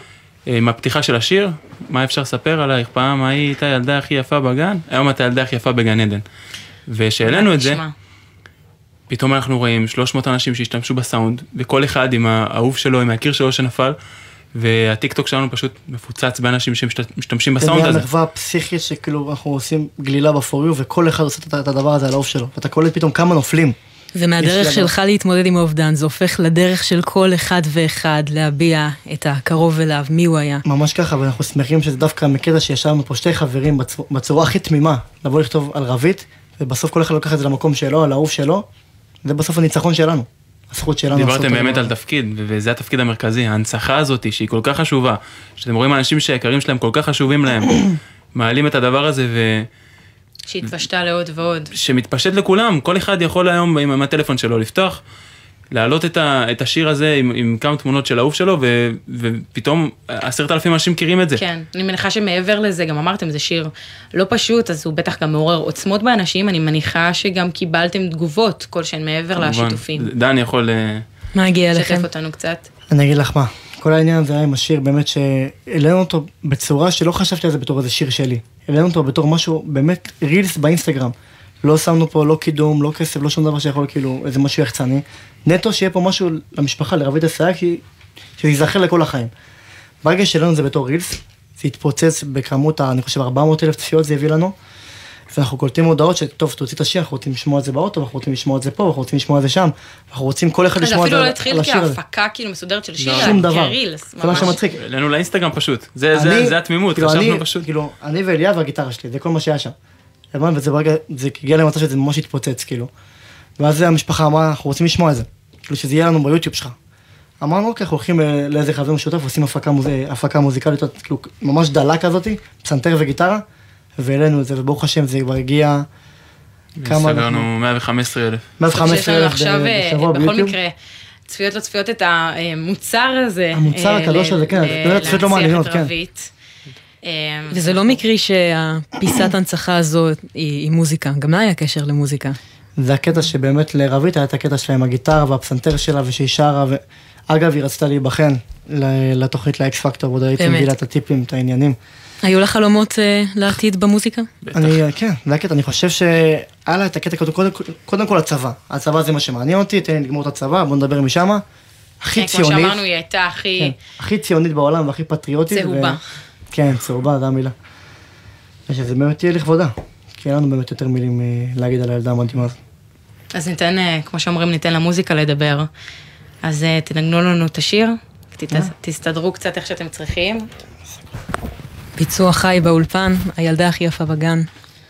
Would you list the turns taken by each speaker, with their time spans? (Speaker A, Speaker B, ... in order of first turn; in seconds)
Speaker A: 0.5-6.2, 6.9-7.8, 9.1-13.9, 14.5-18.1, 41.1-49.7, 51.7-55.0, 55.7-61.4, 69.3-71.0, 103.0-103.4, 104.3-107.7, 126.8-128.4, 154.4-154.8
Speaker B: 7.2-7.9, 50.5-51.7, 61.4-70.1, 71.7-72.7, 100.8-104.6, 128.7-130.7, 131.3-136.3, 137.0-138.0, 162.1-163.7, 165.5-166.0, 173.3-175.7, 176.4-180.5
Speaker C: 17.6-23.8, 24.4-24.9, 30.6-38.6, 39.2-41.9, 72.9-87.8, 88.4-89.3, 90.0-94.5, 95.3-102.0, 103.1-104.8, 106.1-109.7, 110.3-112.9, 113.6-116.7, 117.4-123.4, 124.0-125.8, 126.8-127.4, 128.6-130.5, 133.5-135.9, 142.8-151.8, 154.5-161.4, 162.0-162.8, 163.6-166.0, 166.5-167.5, 168.7-172.6
Speaker D: 24.1-30.6, 71.3-72.1, 137.5-142.3, 150.4-150.7, 152.2-154.3, 182.0-184.5